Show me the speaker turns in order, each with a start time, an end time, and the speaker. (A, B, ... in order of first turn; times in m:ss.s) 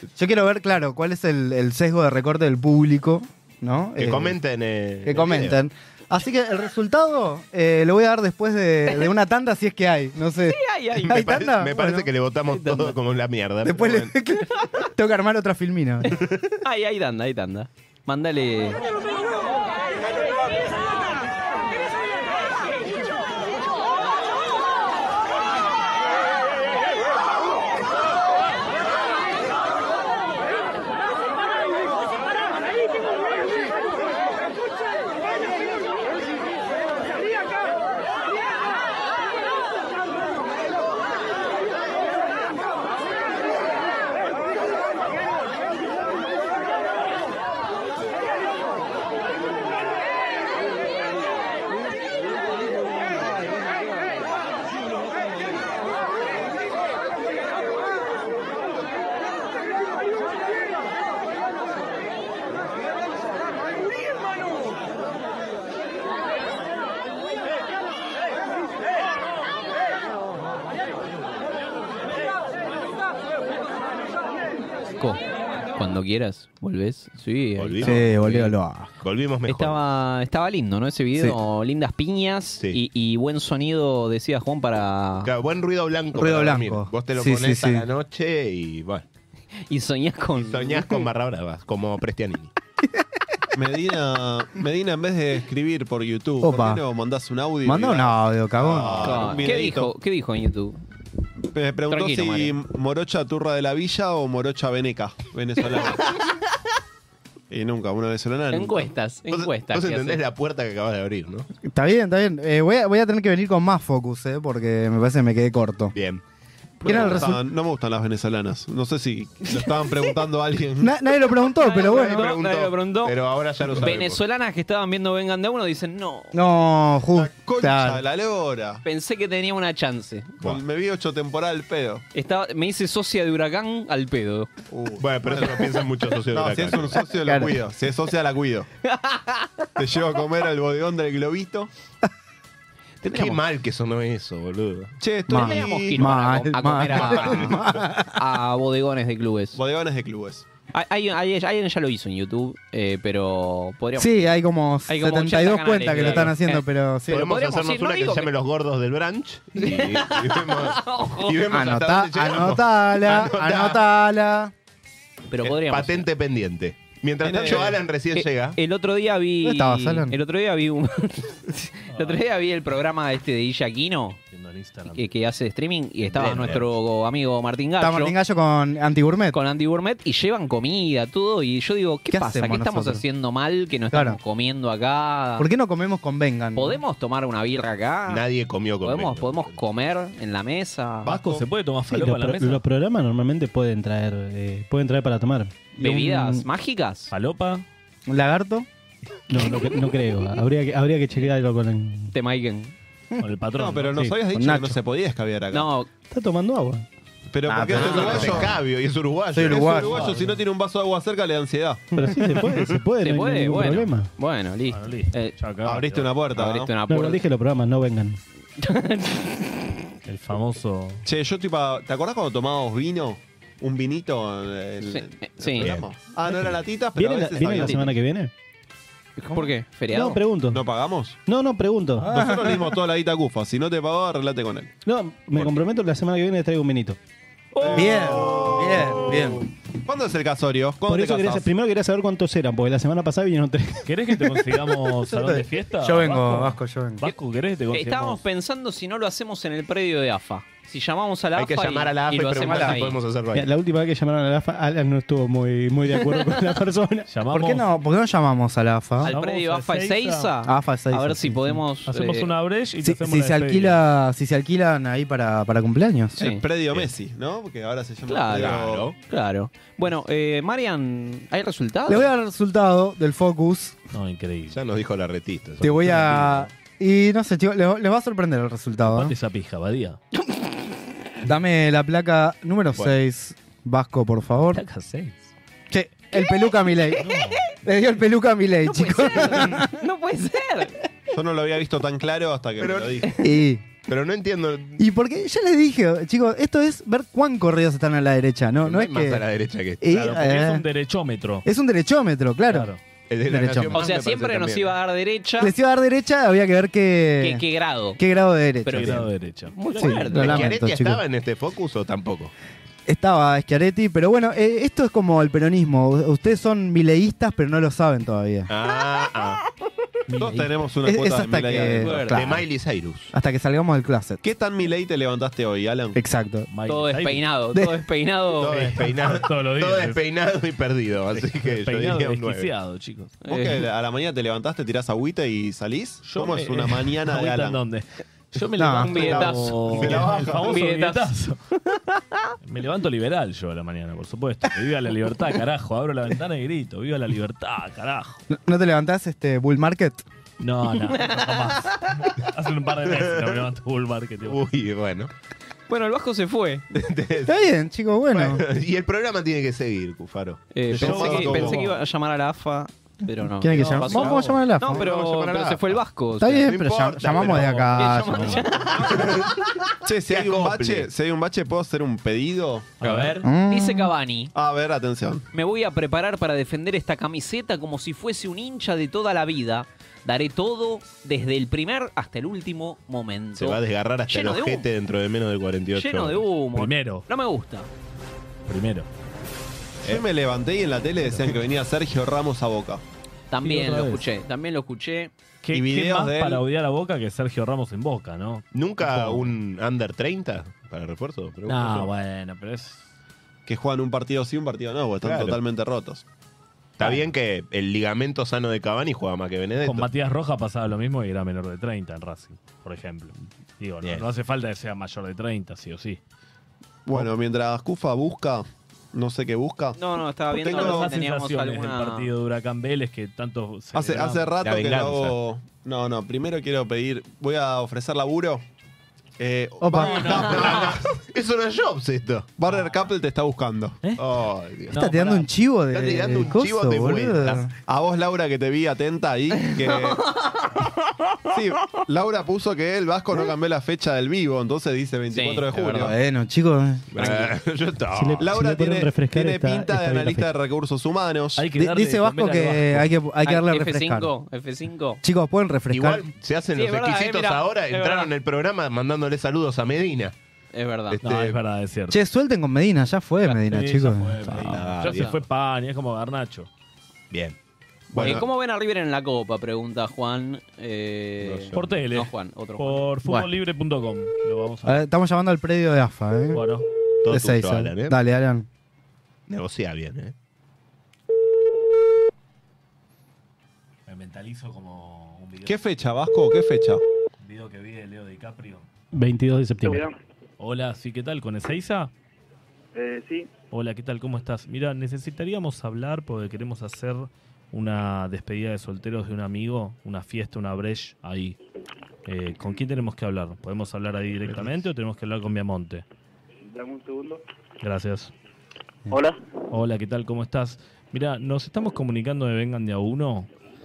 0:00.2-0:04.4 A
0:04.0-0:05.6 B
0:05.0-0:12.1 A
0:10.5-0:11.3 C
0:11.0-0:14.1 B
0:12.5-0:13.0 C
0:13.6-0:16.2 A
0:16.6-0:18.8 C
1:15.8-1:18.5 C
1:17.6-1:18.1 B
1:17.8-1:18.9 A
1:19.0-1:19.8 B
1:19.5-1:25.3 C
1:25.2-1:29.0 B
1:26.2-1:27.9 A
1:29.7-1:31.0 C
1:30.4-1:32.5 B
1:33.5-1:39.9 D
1:36.4-1:36.8 A
1:37.6-1:39.4 A
1:38.9-1:40.8 C
1:41.5-1:46.3 D
1:41.9-1:42.6 C
1:45.7-1:46.1 C
1:47.5-1:48.9 D
1:48.5-1:50.2 C
1:49.3-1:51.5 B
1:51.6-1:55.9 A
1:55.9-1:56.2 B
1:56.8-2:01.0 D
1:56.8-1:57.2 B
1:56.8-1:57.4 A
1:59.5-2:00.1 C
2:00.8-2:02.3 A
2:01.6-2:03.2 C
2:01.7-2:04.2 B
2:03.7-2:06.3 C
2:06.3-2:08.0 A
2:07.1-2:08.8 D
2:08.8-2:10.6 C
2:10.4-2:12.0 D
2:12.1-2:14.5 C
2:14.7-2:15.7 D
2:15.0-2:17.0 B
2:16.3-2:18.7 D
2:17.2-2:17.6 A
2:18.8-2:19.7 C
2:19.8-2:21.7 D
2:23.0-2:23.4 C
2:23.1-2:25.0 B
2:25.0-2:26.2 D
2:25.3-2:28.2 A
2:25.3-2:29.6 C
2:26.9-2:27.6 B
2:29.6-2:30.5 D
2:30.7-2:34.3 C
2:34.0-2:37.3 A
2:34.9-2:38.3 C
2:37.1-2:43.8 B
2:39.6-2:41.5 C
2:41.5-2:44.5 A
2:45.3-2:46.1 C
2:45.4-2:48.6 B
2:47.2-2:47.8 D
2:47.4-2:54.2 C
2:49.4-2:50.2 A
2:51.9-2:52.2 E
2:54.3-2:55.2 E
2:54.9-2:58.2 C
2:56.2-2:56.6 E
2:56.2-2:56.6 B
2:57.8-2:59.4 A
2:59.3-3:05.5 C
3:02.1-3:03.0 A
3:03.9-3:04.2 A
3:05.4-3:06.8 A
3:06.6-3:08.2 C
3:08.1-3:09.6 B
3:08.8-3:11.2 C
3:11.0-3:12.6 E
3:11.1-3:11.4 D
3:11.9-3:15.7 F
3:15.8-3:17.1 C
3:15.8-3:16.5 A
3:17.1-3:17.6 E
3:18.1-3:18.7 A
3:19.3-3:22.2 F
3:22.1-3:22.7 C
3:23.2-3:24.2 E
3:23.5-3:25.7 D
3:24.3-3:24.8 A
3:25.5-3:25.9 C
3:26.0-3:26.8 F
3:27.3-3:28.6 D
3:27.5-3:28.5 A
3:27.7-3:29.9 B
3:29.3-3:30.1 A
3:29.4-3:31.9 D
3:29.8-3:30.4 E
3:31.9-3:34.1 F
3:33.0-3:35.4 C
3:34.7-3:36.2 E
3:35.6-3:36.7 D
3:36.3-3:37.2 C
3:36.9-3:38.2 F
3:38.6-3:39.7 C
3:40.0-3:41.0 E
3:41.0-3:47.9 D
3:44.8-3:45.8 C
3:46.9-3:48.3 F
3:49.2-3:50.2 C
3:49.9-3:50.6 F
3:50.4-3:51.2 D
3:51.3-3:52.2 F
3:52.0-3:52.8 A
3:52.1-3:54.7 D
3:54.8-3:57.0 F
3:57.5-3:58.3 C
3:57.6-4:01.5 D
3:57.7-3:59.5 A
4:00.8-4:03.9 F
4:03.9-4:08.2 E
4:05.1-4:07.0 A
4:07.7-4:13.0 C
4:11.4-4:13.5 B
4:12.5-4:12.8 A
4:13.3-4:17.1 F
4:17.1-4:17.7 E
4:17.3-4:19.1 A
4:19.0-4:22.3 C
4:19.0-4:20.3 E
4:20.5-4:21.6 A
4:21.9-4:23.8 E
4:22.8-4:26.2 A
4:26.2-4:26.5 C
4:26.2-4:29.0 D
4:28.1-4:32.1 C
4:28.3-4:29.0 B
4:31.9-4:33.8 A
4:33.9-4:34.6 E
4:34.5-4:36.0 B
4:35.6-4:39.1 A
4:35.6-4:36.4 E
4:38.8-4:40.0 E
4:41.2-4:44.6 A
4:44.5-4:45.3 E
4:45.7-4:49.7 A
4:46.2-4:47.5 C
4:47.0-4:47.4 E
4:48.6-4:50.8 C
4:51.1-4:53.2 D
4:52.6-4:53.1 B
4:53.2-4:53.6 A
4:53.9-4:54.8 B
4:54.8-4:59.2 A
4:58.6-4:59.8 B
4:59.8-5:00.6 A
4:59.9-5:01.4 E
5:01.4-5:02.7 A
5:02.5-5:02.8 E
5:03.1-5:04.8 B
5:03.3-5:03.8 A
5:03.7-5:05.5 C
5:05.4-5:07.4 A
5:07.2-5:08.0 C
5:08.0-5:09.1 A
5:08.6-5:10.5 C
5:08.7-5:10.2 E
5:09.8-5:11.0 A
5:10.2-5:12.3 B
5:12.9-5:18.5 A
5:18.5-5:19.4 B
5:20.1-5:20.5 E
5:20.2-5:22.1 D
5:20.8-5:22.4 A
5:21.7-5:22.2 C
5:22.1-5:23.1 B
5:23.1-5:24.2 A
5:24.2-5:26.0 D
5:26.0-5:26.5 A
5:26.5-5:27.3 E
5:26.7-5:28.8 C
5:27.5-5:27.8 A
5:28.4-5:32.5 B
5:28.8-5:30.0 E
5:31.2-5:33.2 E
5:33.2-5:33.7 C
5:33.3-5:37.6 D
5:36.0-5:41.4 E
5:38.6-5:39.3 A
5:38.8-5:41.2 C
5:39.1-5:40.5 D
5:39.8-5:40.3 B
5:42.4-5:48.2 E
5:48.3-5:50.0 A
5:50.4-5:54.4 E
5:50.8-5:52.0 C
5:52.9-5:53.4 B
5:54.3-5:55.1 B
5:55.7-5:56.6 C
5:56.7-5:57.4 B
5:57.3-5:58.4 A
5:58.1-6:00.4 B
6:00.5-6:06.5 C
6:00.7-6:01.7 D
6:00.7-6:01.7 E
6:03.4-6:04.8 A
6:03.5-6:04.4 E
6:04.6-6:05.8 B
6:06.2-6:08.4 A
6:06.4-6:07.9 B
6:07.2-6:08.4 E
6:07.8-6:09.3 C
6:08.8-6:09.3 B
6:09.8-6:12.8 D
6:10.1-6:10.9 B
6:12.8-6:13.2 E
6:12.8-6:14.3 C
6:13.2-6:13.9 A
6:14.3-6:15.3 D
6:15.3-6:24.7 C
6:23.4-6:26.2 B
6:25.8-6:27.7 C
6:26.6-6:27.1 E
6:28.5-6:28.9 E
6:29.8-6:32.8 D
6:31.1-6:31.4 E
6:33.3-6:35.1 C
6:33.4-6:34.0 E
6:35.4-6:39.3 E
6:35.5-6:36.4 D
6:38.5-6:41.9 B
6:41.5-6:42.9 E
6:43.5-6:46.0 D
6:45.0-6:45.4 B
6:46.8-6:49.9 B
6:49.6-6:56.0 E
6:56.9-7:01.0 D
6:59.8-7:02.1 C
7:00.4-7:04.3 E
7:03.7-7:08.4 D
7:04.4-7:05.2 B
7:09.2-7:10.8 D
7:09.6-7:10.2 A
7:09.8-7:12.3 B
7:12.4-7:13.8 D
7:14.0-7:14.8 B
7:14.7-7:15.3 E
7:14.7-7:17.5 A
7:15.7-7:17.5 B
7:17.7-7:20.2 D
7:19.4-7:20.4 C
7:21.3-7:25.9 D
7:25.1-7:25.9 C
7:25.8-7:26.9 A
7:26.9-7:28.3 B
7:27.0-7:27.3 D
7:27.9-7:30.3 F
7:28.2-7:31.5 D
7:31.4-7:32.9 E
7:31.6-7:34.1 A
7:33.2-7:35.0 C
7:35.0-7:36.1 A
7:35.7-7:40.2 B
7:36.5-7:38.1 C
7:40.5-7:41.0 C
7:40.9-7:41.4 B
7:41.0-7:42.0 E
7:41.9-7:44.6 A
7:43.4-7:46.5 E
7:44.5-7:45.2 B
7:44.9-7:45.2 C
7:47.1-7:47.4 B
7:47.9-7:48.2 B
7:48.0-7:52.9 C
7:51.3-7:51.7 B
7:51.6-7:54.8 E
7:54.6-7:56.4 A
7:56.3-7:56.7 E
7:57.0-7:58.0 B
7:57.1-7:58.5 A
7:59.3-8:00.1 B
8:03.9-8:05.6 E
8:05.4-8:06.8 D
8:07.2-8:08.7 E
8:08.9-8:09.9 F
8:09.6-8:10.0 G
8:10.4-8:11.9 E
8:12.8-8:13.3 G
8:13.5-8:21.4 E
8:22.1-8:25.8 E
8:26.4-8:27.2 G
8:27.6-8:28.1 E
8:28.9-8:29.2 G
8:29.5-8:33.3 E